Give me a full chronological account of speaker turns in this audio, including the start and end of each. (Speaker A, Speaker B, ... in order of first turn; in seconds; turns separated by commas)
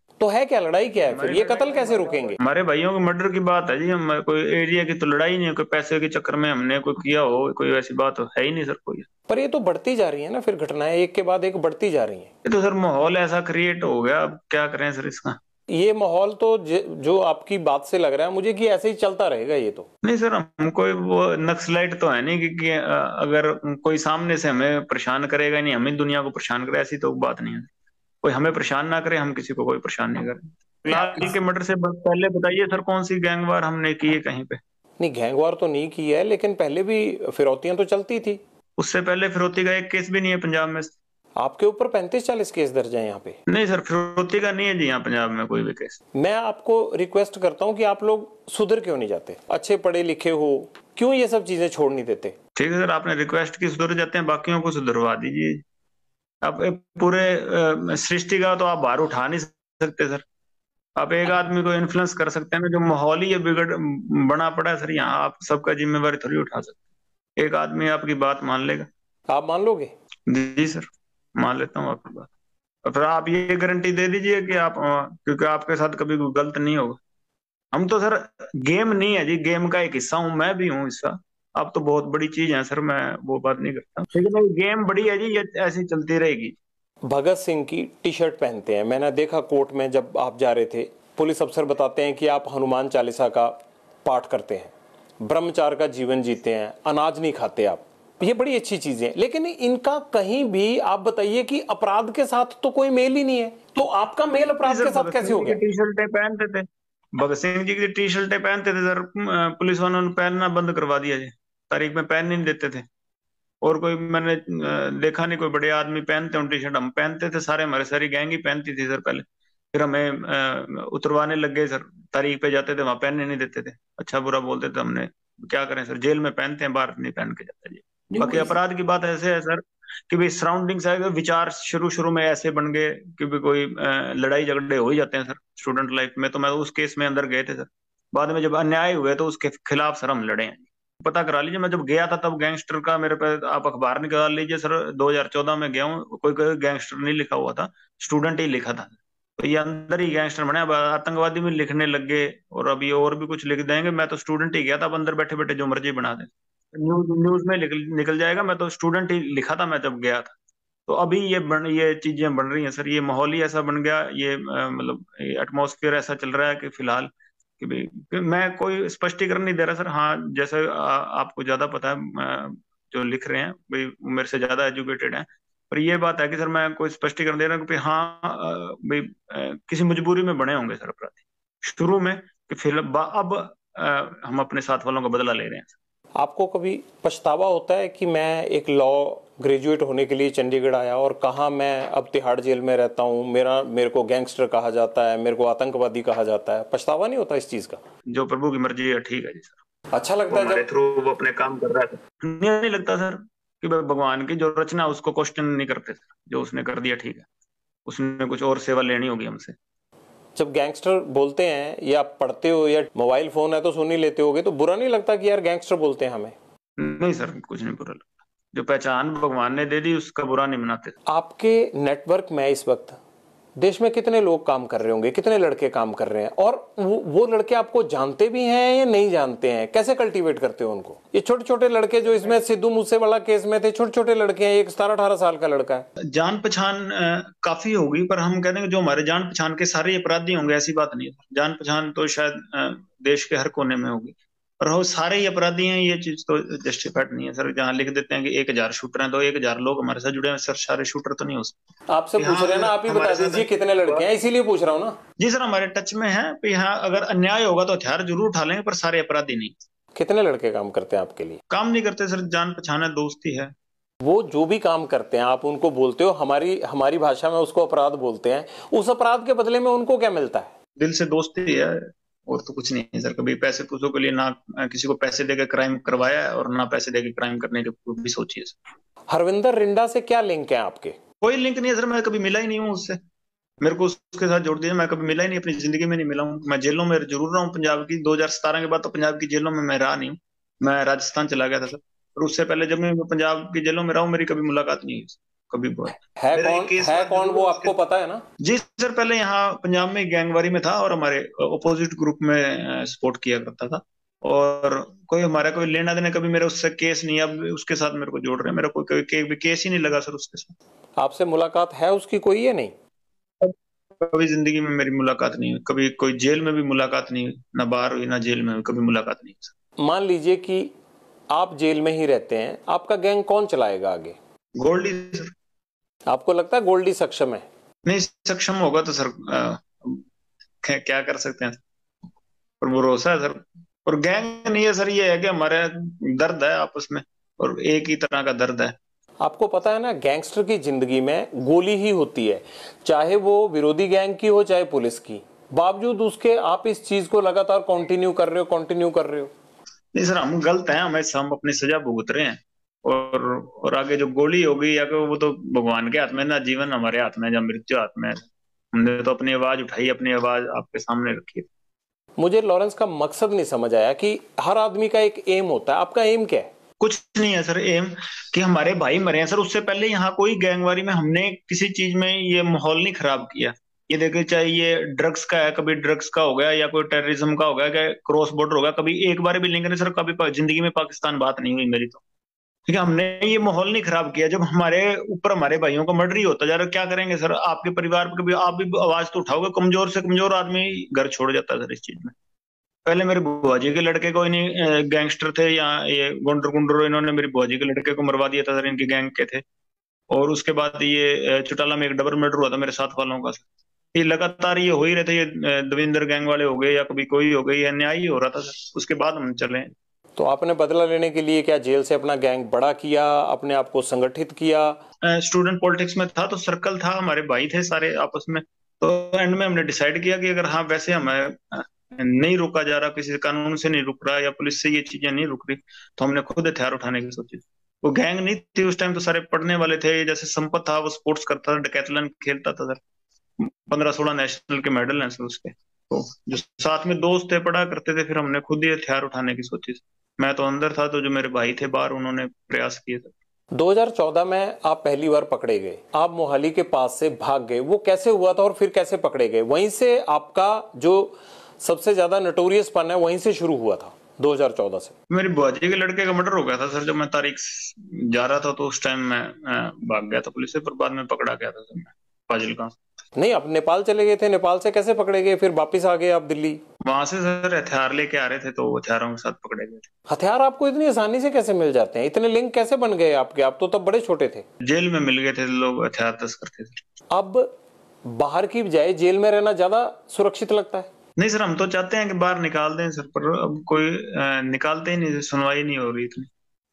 Speaker A: 0.2-2.4, Speaker B: 1.1-9.1, Speaker A: 9.3-12.3, Speaker B: 12.4-15.4, Speaker A: 15.7-19.9, Speaker B: 20.0-27.7, Speaker B: 28.2-34.6, Speaker A: 30.9-31.3, Speaker A: 35.0-38.4, Speaker B: 38.8-41.0, Speaker A: 41.4-43.4, Speaker B: 43.5-46.0, Speaker A: 46.2-52.4, Speaker B: 52.6-55.6, Speaker B: 56.4-60.2, Speaker B: 61.0-66.8, Speaker B: 67.4-68.9, Speaker A: 69.3-69.9, Speaker B: 70.3-72.3, Speaker B: 72.8-77.0, Speaker B: 77.7-86.6, Speaker A: 87.1-105.6, Speaker B: 104.6-112.9, Speaker B: 113.6-160.3, Speaker A: 128.1-128.6, Speaker B: 160.9-185.7, Speaker A: 186.2-197.8, Speaker B: 198.1-199.6, Speaker A: 199.9-200.6, Speaker B: 200.3-207.2, Speaker B: 207.9-209.6, Speaker A: 210.4-216.3, Speaker B: 216.8-220.9, Speaker A: 221.1-223.0, Speaker A: 223.6-235.9, Speaker B: 236.1-251.6, Speaker A: 251.9-255.0, Speaker B: 252.2-254.1, Speaker B: 255.2-259.6, Speaker A: 259.9-261.4, Speaker B: 261.5-263.5, Speaker A: 264.0-270.5, Speaker B: 270.8-278.6, Speaker A: 279.1-280.9, Speaker B: 281.2-283.0, Speaker B: 283.6-297.7, Speaker A: 296.2-298.2, Speaker B: 298.4-310.6, Speaker A: 311.0-312.7, Speaker B: 313.4-319.5, Speaker A: 319.8-320.7, Speaker A: 321.3-324.2, Speaker B: 324.6-325.3, Speaker A: 326.1-327.4, Speaker B: 327.8-330.0, Speaker B: 330.6-331.6, Speaker B: 332.6-338.8, Speaker A: 339.2-349.3, Speaker B: 349.9-361.5, Speaker A: 362.2-366.5, Speaker B: 366.8-382.0, Speaker B: 382.7-392.1, Speaker B: 392.8-399.4, Speaker B: 400.1-409.7, Speaker A: 410.2-414.8, Speaker B: 415.0-432.8, Speaker B: 433.4-443.1, Speaker A: 443.5-454.9, Speaker B: 455.1-462.7, Speaker A: 463.2-466.6, Speaker B: 466.8-469.9, Speaker A: 470.1-474.4, Speaker B: 474.6-476.8, Speaker A: 477.1-477.5, Speaker A: 478.1-480.9, Speaker B: 481.2-486.3